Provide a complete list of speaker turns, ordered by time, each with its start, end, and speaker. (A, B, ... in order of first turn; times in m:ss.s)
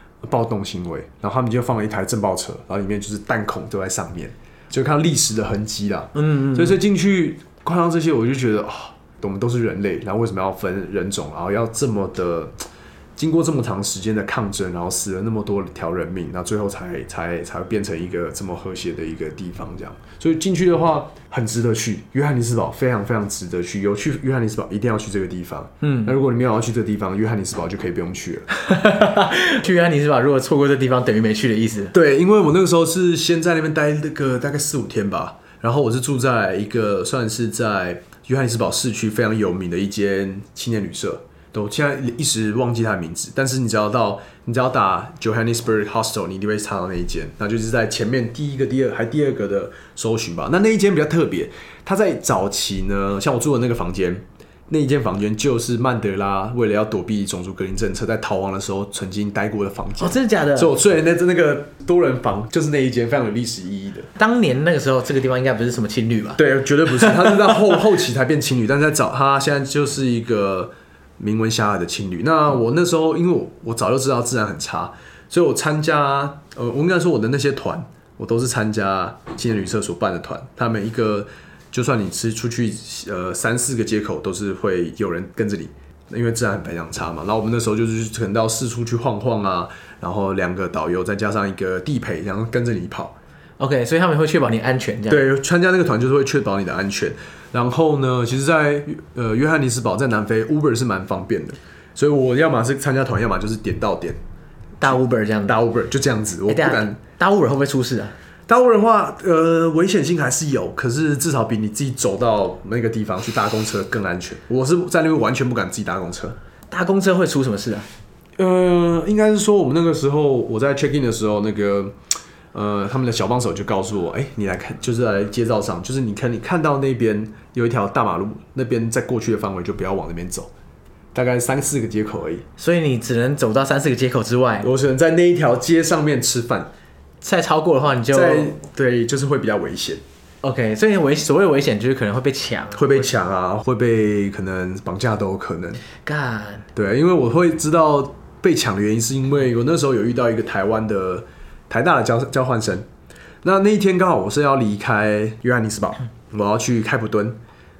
0:00.2-0:12.5 A
0:06.2-0:06.8 B
0:13.2-0:28.5 A
0:25.8-0:26.1 B
0:28.5-0:31.9 B
0:31.9-1:04.1 A
1:00.0-1:00.7 B
1:04.2-1:07.7 B
1:06.4-1:33.1 A
1:33.6-1:35.2 B
1:35.1-1:44.2 A
1:44.8-1:45.6 B
1:44.8-1:47.0 A
1:46.5-1:48.1 B
1:48.5-1:56.4 A
1:56.7-1:57.9 B
1:58.4-2:02.0 A
2:02.5-2:10.5 A
2:11.1-2:12.4 A
2:12.6-2:14.7 B
2:14.6-2:16.7 A
2:17.2-2:18.5 B
2:18.1-2:20.0 A
2:20.4-2:23.1 B
2:22.8-2:25.8 A
2:26.0-2:26.7 B
2:26.7-2:32.9 A
2:33.4-2:37.4 A